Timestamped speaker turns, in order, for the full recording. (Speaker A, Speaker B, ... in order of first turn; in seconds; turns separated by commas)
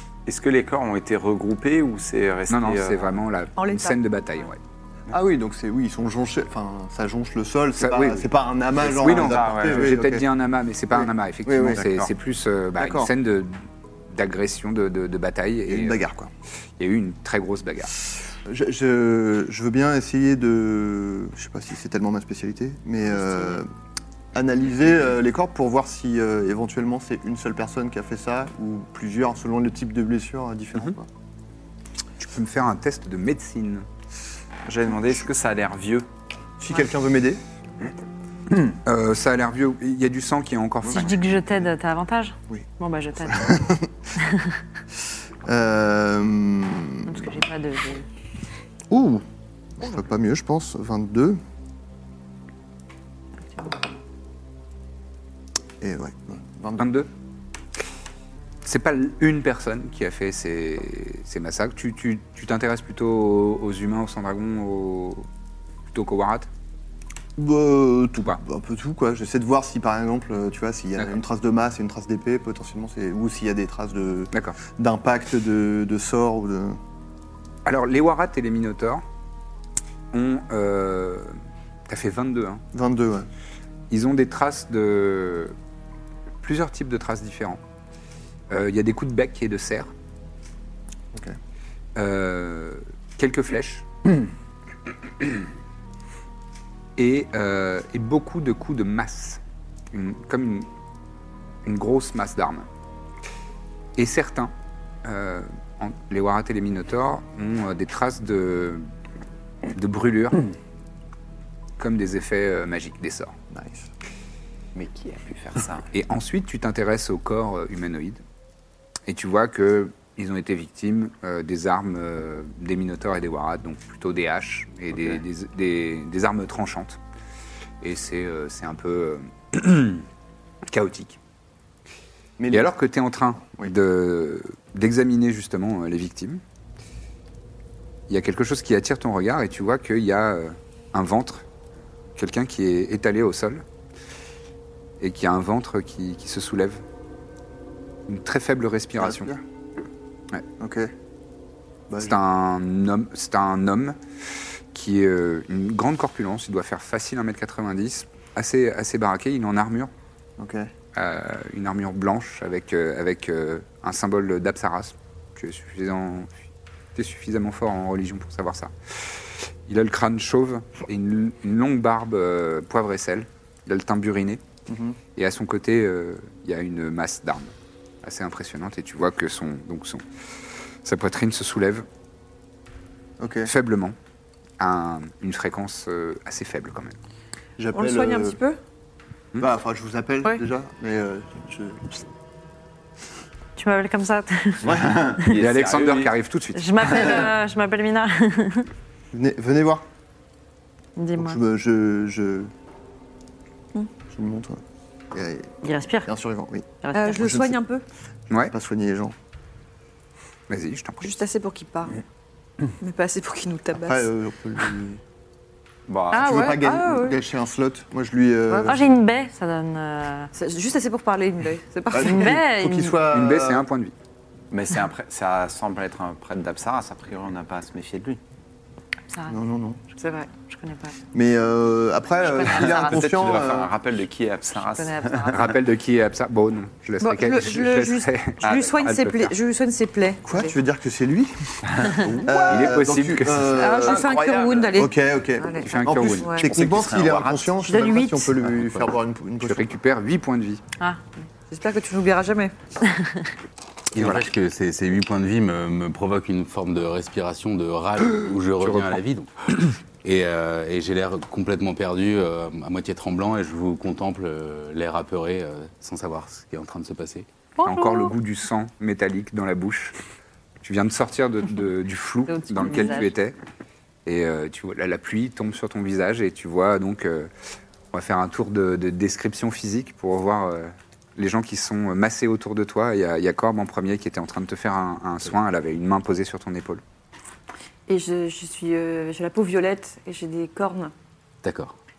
Speaker A: 0.2-3.2, Speaker B: 2.5-4.6, Speaker C: 3.6-4.0, Speaker D: 5.1-10.2, Speaker B: 7.8-8.3, Speaker A: 8.8-10.0, Speaker B: 8.9-16.0, Speaker D: 10.9-11.9, Speaker D: 12.8-13.1, Speaker D: 15.7-16.3, Speaker B: 16.8-17.9, Speaker D: 18.4-23.7, Speaker C: 23.1-23.5, Speaker D: 24.3-31.1, Speaker B: 32.2-33.9, Speaker A: 34.6-36.1, Speaker D: 36.6-37.4, Speaker B: 38.8-41.2, Speaker D: 40.8-41.5, Speaker E: 40.9-43.6, Speaker D: 42.5-43.9, Speaker E: 44.2-44.6, Speaker D: 45.4-47.3, Speaker E: 47.0-48.1, Speaker D: 48.9-49.2, Speaker D: 49.8-51.4, Speaker D: 55.8-56.8, Speaker B: 56.8-57.1, Speaker B: 58.6-65.3, Speaker B: 65.9-66.5, Speaker D: 67.4-76.8, Speaker B: 74.3-74.6, Speaker B: 77.6-79.0, Speaker B: 80.1-81.4, Speaker B: 81.9-82.6, Speaker D: 82.7-83.3, Speaker B: 83.9-85.5, Speaker B: 86.4-87.6, Speaker B: 88.5-89.9, Speaker B: 92.0-93.9, Speaker B: 97.0-99.4, Speaker B: 99.9-100.7, Speaker B: 101.6-102.7, Speaker B: 104.0-104.5, Speaker B: 105.0-108.9, Speaker B: 109.7-110.5, Speaker B: 111.8-113.3, Speaker D: 113.5-113.9, Speaker A: 114.7-115.9, Speaker B: 115.9-118.2, Speaker B: 119.1-127.0, Speaker B: 127.8-130.1, Speaker B: 130.7-131.2, Speaker D: 132.4-132.7, Speaker B: 132.5-136.4, Speaker D: 133.4-133.7, Speaker B: 138.1-141.4, Speaker B: 142.2-143.6, Speaker B: 145.0-146.8, Speaker B: 148.1-149.3, Speaker D: 149.0-149.4, Speaker D: 150.6-150.9, Speaker D: 151.9-152.2, Speaker B: 152.0-159.9, Speaker D: 160.4-160.7, Speaker B: 160.9-166.4, Speaker B: 166.9-174.4, Speaker D: 174.7-175.0, Speaker B: 175.2-181.8, Speaker D: 183.2-183.5, Speaker B: 183.4-183.9, Speaker B: 184.6-187.0, Speaker D: 187.6-188.4, Speaker C: 187.7-188.6, Speaker D: 189.4-192.0, Speaker E: 193.6-195.3, Speaker A: 194.6-196.1, Speaker B: 195.3-197.0, Speaker E: 196.5-198.7, Speaker A: 196.9-197.2, Speaker D: 199.1-199.8, Speaker E: 200.9-201.4, Speaker D: 201.2-202.5, Speaker D: 204.1-205.5, Speaker E: 205.6-206.1, Speaker D: 206.0-207.6, Speaker E: 206.8-207.3, Speaker C: 206.9-207.8, Speaker D: 208.3-209.1, Speaker B: 210.5-211.1, Speaker C: 211.0-212.0, Speaker C: 212.8-214.1, Speaker D: 213.8-215.0, Speaker A: 215.9-216.6, Speaker C: 216.1-217.2, Speaker D: 216.2-218.8, Speaker C: 218.5-218.8, Speaker E: 218.6-220.3, Speaker C: 220.3-222.4, Speaker D: 221.9-223.6, Speaker E: 222.0-223.0, Speaker B: 223.1-223.9, Speaker A: 224.5-228.2, Speaker E: 229.1-229.4, Speaker D: 229.3-229.8, Speaker C: 230.0-230.3, Speaker E: 230.3-231.0, Speaker D: 231.1-233.7, Speaker E: 232.2-233.3, Speaker A: 232.4-235.4, Speaker E: 234.5-235.5, Speaker B: 235.3-239.3, Speaker C: 237.0-240.5, Speaker A: 238.4-238.7, Speaker D: 240.2-244.1, Speaker B: 242.0-243.8, Speaker C: 243.5-246.5, Speaker A: 243.8-244.9, Speaker D: 244.7-249.6, Speaker B: 245.6-246.3, Speaker A: 246.4-247.6, Speaker E: 247.7-248.3, Speaker F: 248.6-248.9, Speaker B: 249.4-250.6, Speaker E: 250.8-251.3, Speaker C: 251.5-252.5, Speaker E: 252.8-253.3, Speaker F: 253.9-267.3, Speaker B: 253.9-254.2, Speaker B: 258.6-259.0, Speaker E: 267.6-268.1, Speaker B: 267.6-269.9, Speaker B: 270.6-273.4, Speaker E: 272.3-273.1, Speaker B: 274.1-277.3, Speaker B: 277.9-286.8, Speaker C: 287.9-290.9, Speaker F: 291.4-291.7